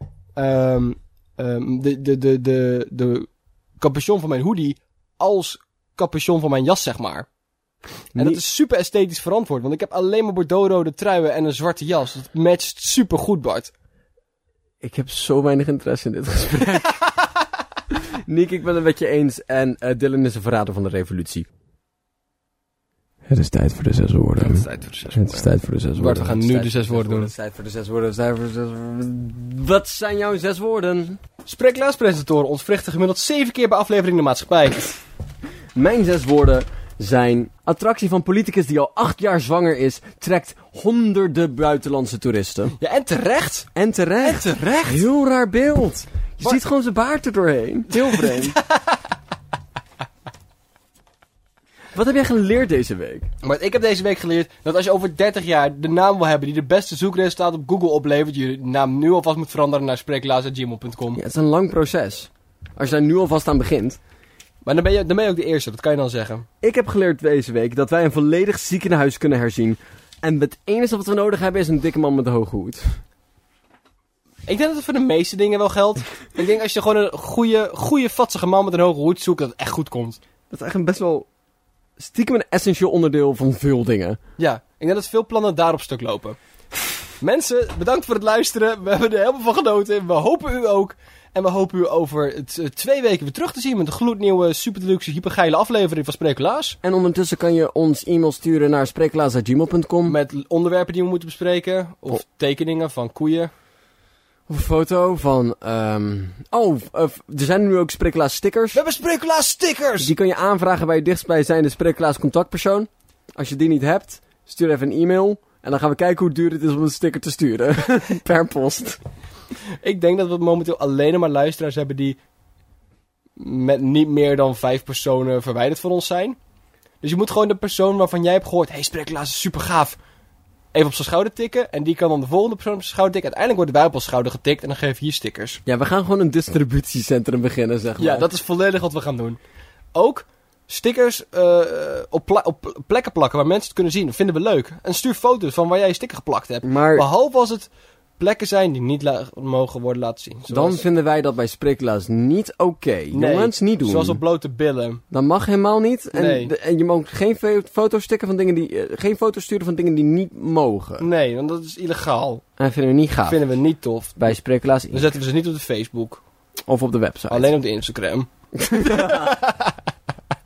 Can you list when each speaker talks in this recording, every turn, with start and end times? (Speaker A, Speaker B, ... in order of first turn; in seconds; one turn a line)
Speaker A: 0.4-3.3
Speaker A: 3.8-7.3
Speaker B: 8.2-8.4
Speaker A: 8.2-13.7
Speaker B: 14.8-17.1
Speaker B: 18.3-21.5
Speaker B: 23.3-31.2
Speaker A: 24.4-25.4
Speaker A: 26.0-27.3
Speaker A: 31.4-35.0
Speaker B: 35.8-42.8
Speaker A: 42.8-43.7
Speaker B: 43.8-48.6
Speaker A: 44.2-45.1
Speaker A: 47.9-49.0
Speaker B: 52.0-53.3
Speaker A: 53.4-61.2
Speaker B: 61.2-64.0
Speaker A: 64.6-66.5
Speaker B: 66.6-73.0
Speaker A: 74.5-80.2
Speaker B: 80.5-81.3
Speaker B: 82.0-84.2
Speaker A: 84.4-86.4
Speaker A: 87.2-96.8
Speaker B: 96.8-100.2
Speaker A: 100.1-103.5
Speaker B: 104.5-108.8
Speaker A: 108.7-110.1
Speaker B: 110.0-119.0
Speaker A: 119.8-122.2
Speaker A: 123.4-126.4
Speaker A: 127.0-130.0
Speaker A: 130.7-135.6
Speaker B: 135.7-138.3
Speaker A: 138.0-139.4
Speaker A: 139.9-150.8
Speaker B: 146.6-147.1
Speaker B: 150.5-154.2
Speaker A: 153.1-155.0
Speaker B: 155.1-161.1
Speaker A: 156.1-156.5
Speaker A: 161.0-162.4
Speaker B: 162.6-163.4
Speaker A: 163.3-164.3
Speaker B: 164.2-165.2
Speaker A: 164.9-166.2
Speaker B: 166.7-167.5
Speaker A: 167.3-169.7
Speaker B: 168.6-169.4